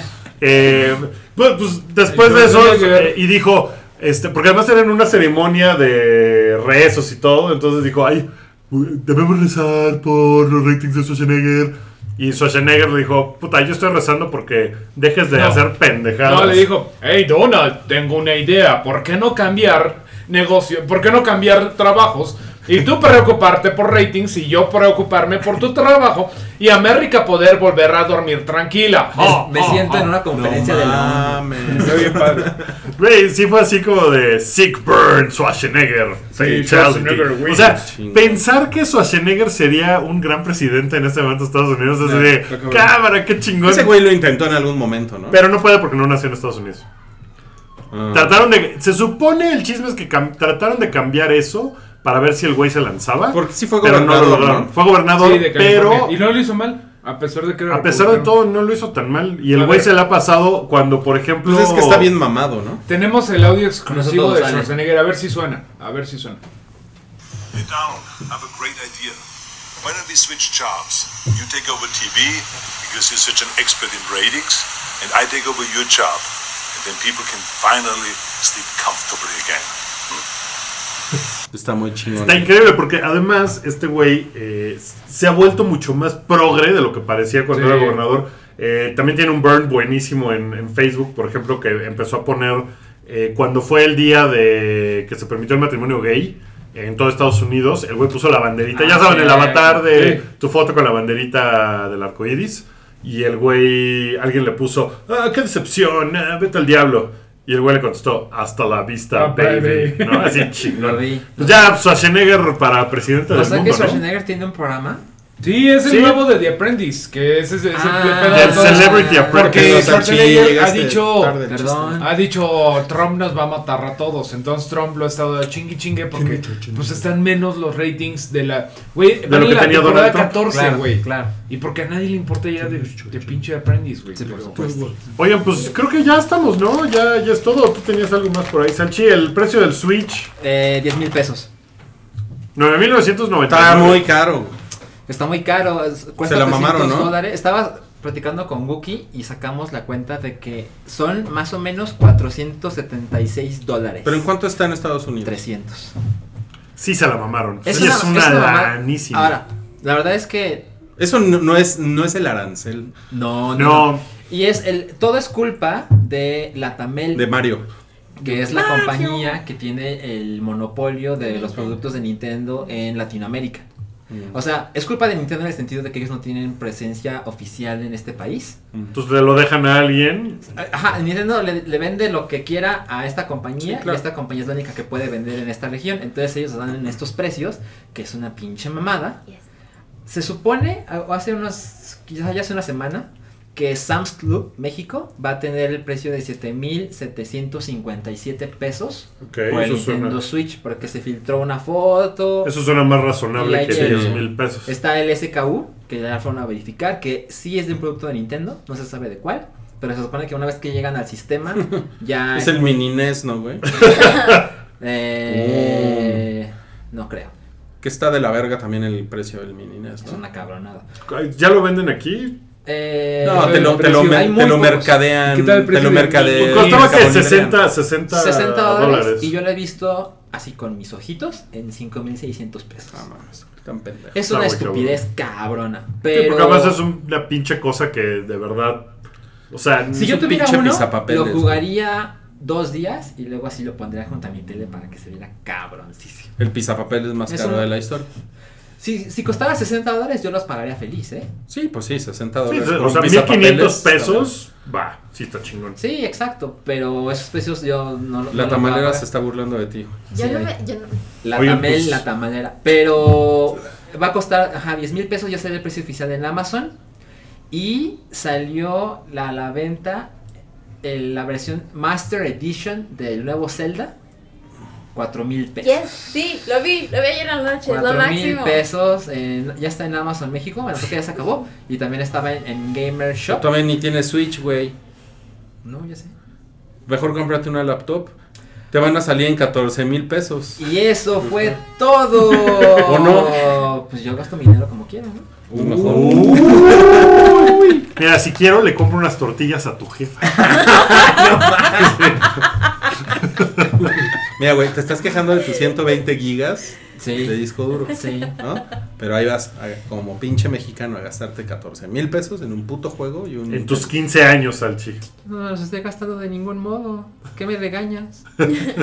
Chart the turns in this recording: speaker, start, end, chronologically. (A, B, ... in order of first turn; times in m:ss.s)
0:00.4-0:16.7 A
0:02.1-0:03.2 B
0:15.3-0:15.7 B
0:16.2-0:30.1 B
0:29.2-0:31.9 C
0:29.2-0:30.1 A
0:30.3-0:32.4 D
0:31.7-0:32.6 B
0:32.9-0:43.9 A
0:36.3-0:37.8 B
0:37.8-0:38.4 D
0:42.0-0:42.9 B
0:43.6-0:45.4 D
0:45.3-0:46.9 A
0:47.9-0:48.4 D
0:48.1-0:56.2 A
0:53.3-0:54.7 D
0:55.2-0:58.4 B
0:57.7-1:02.1 A
0:59.6-0:59.9 B
1:01.4-1:02.8 D
1:02.9-1:06.4 B
1:03.9-1:04.7 C
1:07.5-1:09.2 E
1:09.8-1:20.2 E
1:21.5-1:22.5 D
1:22.2-1:54.0 A
1:27.5-1:28.0 B
1:38.8-1:39.8 C
1:38.9-1:40.2 B
1:49.1-1:50.6 B
1:50.7-1:51.7 C
1:53.3-1:55.0 C
1:55.4-2:01.4 B
1:55.8-1:56.3 A
1:57.7-1:59.5 C
1:58.3-2:00.1 A
1:59.3-2:02.1 D
2:01.4-2:02.2 C
2:02.0-2:14.7 B
2:06.3-2:07.0 D
2:09.2-2:10.4 A
2:10.5-2:11.3 C
2:14.2-2:14.9 C
2:14.6-2:14.9 D
2:15.1-2:20.3 A
2:20.4-2:21.5 C
2:22.6-2:24.1 A
2:23.5-2:24.6 D
2:25.1-2:34.2 C
2:26.2-2:27.2 D
2:34.0-2:35.4 D
2:35.2-2:35.9 C
2:36.8-2:39.4 A
2:37.6-2:40.7 C
2:41.0-2:42.9 D
2:43.1-2:47.3 C
2:43.5-2:44.0 A
2:47.1-2:47.6 D
2:48.2-2:53.7 C
2:48.5-2:49.3 F
2:51.3-2:51.9 F
2:54.1-2:54.4 D
2:54.3-2:58.6 C
2:58.9-3:00.6 A
3:00.6-3:09.2 C
3:03.6-3:04.0 D
3:10.1-3:22.5 C
3:19.2-3:20.2 A
3:22.4-3:24.7 A
3:23.3-3:32.8 C
3:23.7-3:24.2 D
3:31.7-3:33.7 D
3:33.7-3:34.5 A
3:34.8-3:37.3 C
3:35.3-3:36.2 D
3:37.8-3:40.2 D
3:40.0-3:40.8 C
3:41.1-3:42.4 A
3:42.6-3:45.0 C
3:43.2-3:47.6 D
3:43.3-3:44.4 B
3:45.2-3:47.2 B
3:46.4-3:49.4 A
3:48.1-3:53.0 C
3:52.9-3:54.2 D
3:54.1-3:56.8 C
3:54.2-3:55.0 A
3:56.1-3:58.9 A
3:59.5-4:00.2 A
3:59.9-4:06.3 C
4:00.0-4:01.6 D
4:06.4-4:08.1 D
4:07.3-4:07.7 C
4:08.8-4:11.3 C
4:11.5-4:14.3 D
4:12.5-4:15.8 A
4:15.8-4:19.0 C
4:18.3-4:20.0 D
4:20.1-4:21.0 F
4:20.1-4:20.5 C
4:21.2-4:26.7 C
4:21.3-4:22.0 D
4:27.5-4:30.1 C
4:30.8-4:33.9 C
4:34.9-4:36.2 C
4:35.6-4:38.6 F
4:37.7-4:43.4 C
4:43.3-4:44.8 D
4:45.6-4:46.1 C
4:46.9-4:48.1 D
4:48.7-4:50.6 D
4:50.6-4:56.6 C
4:52.7-4:53.6 D
4:55.5-4:57.8 D
4:55.8-5:01.0 A
4:55.9-4:56.5 B
5:00.3-5:02.1 C
5:01.8-5:02.4 A
5:03.4-5:03.9 A
5:04.4-5:13.9 D
5:07.0-5:07.4 C
5:07.9-5:08.3 C
5:13.5-5:15.0 A
5:15.2-5:18.2 C